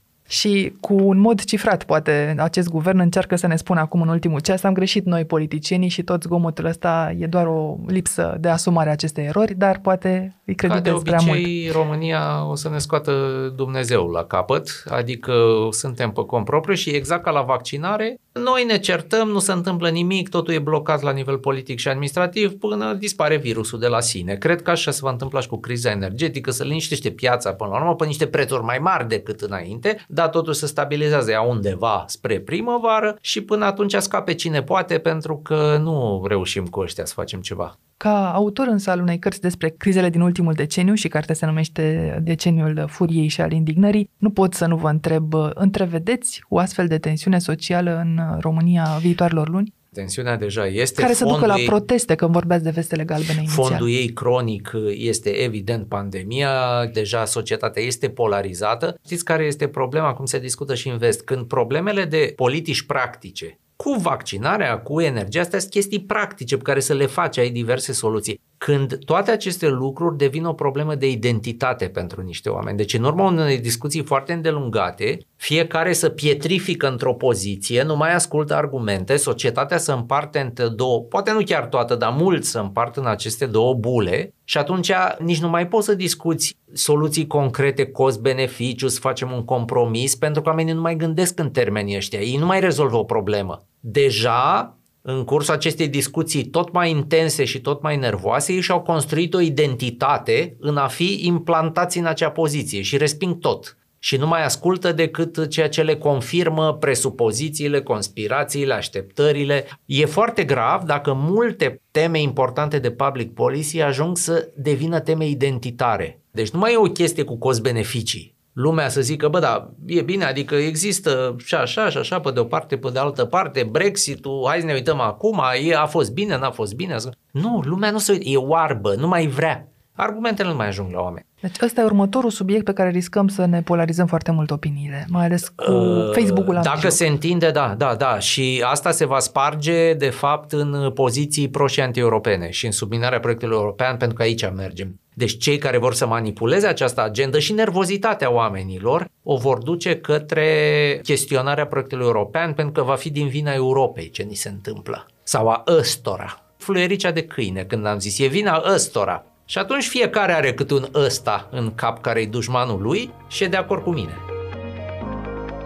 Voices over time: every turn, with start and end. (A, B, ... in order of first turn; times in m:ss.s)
0:00.3-0:11.5 A
0:10.6-0:37.7 B
0:38.0-0:49.7 A
0:49.9-0:51.7 B
0:51.0-0:53.9 A
0:53.4-2:11.2 B
2:11.4-2:17.0 A
2:15.6-2:44.2 B